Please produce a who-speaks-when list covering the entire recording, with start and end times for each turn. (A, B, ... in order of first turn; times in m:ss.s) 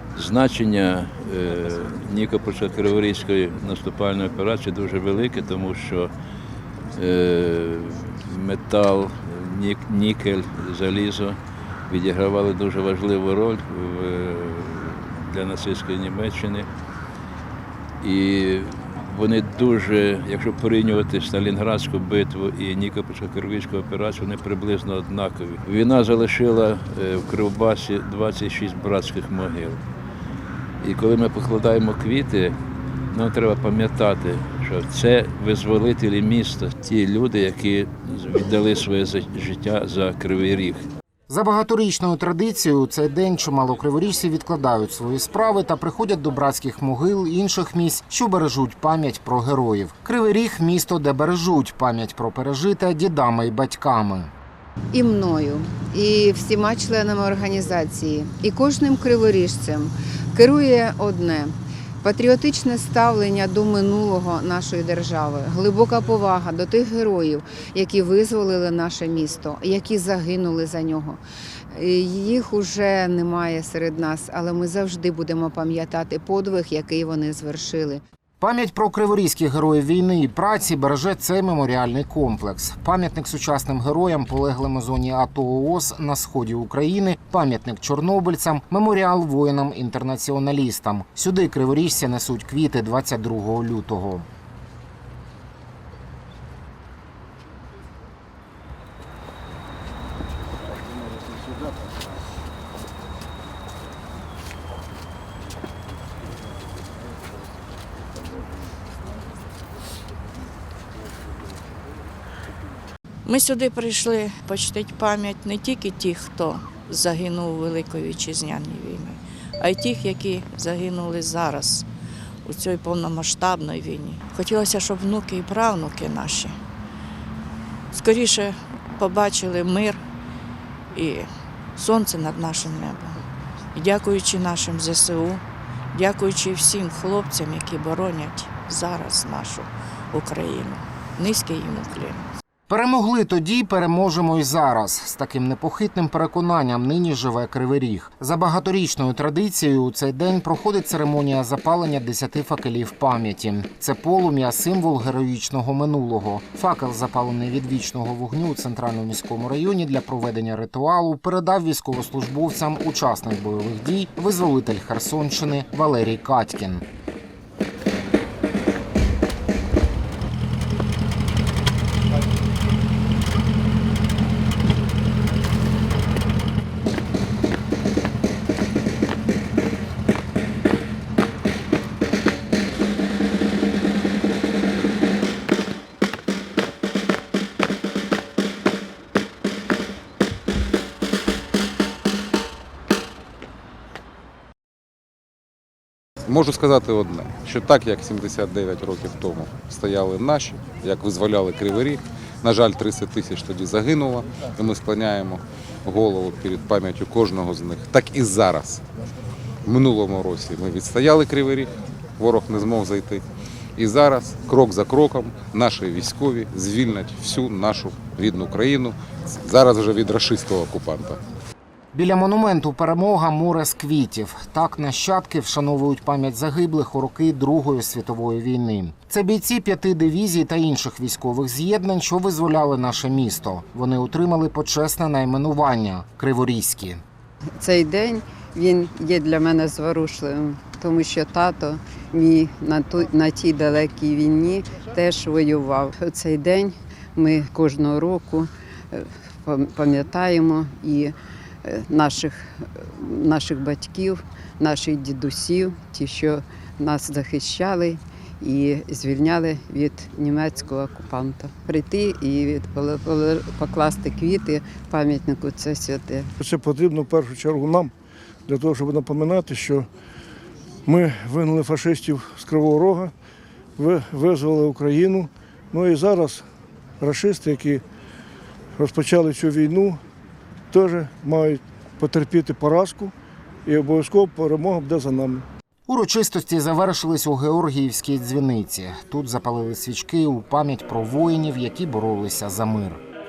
0:00.1-0:06.1 A
0:07.0-0:16.7 A
0:18.0-0:29.8 A
0:30.8-0:32.6 A
0:33.1-0:40.9 A
0:41.3-0:54.3 B
0:54.9-1:18.0 C
1:18.4-1:34.3 B
1:53.2-2:01.9 D
2:02.4-2:06.6 D
2:07.9-2:10.0 D
2:10.9-2:13.2 D
2:13.7-2:22.3 D
2:22.7-2:46.8 B
3:16.3-3:28.8 E
3:29.6-3:33.2 E
3:33.8-3:41.2 E
3:41.9-3:57.0 B
3:57.6-4:26.3 F
4:26.4-4:27.9 G
4:28.5-4:29.9 G
4:30.8-4:33.1 G
4:33.8-4:36.4 G
4:37.0-4:37.8 G
4:38.8-4:40.0 G
4:40.7-4:43.1 G
4:43.6-4:45.4 G
4:45.9-4:53.0 B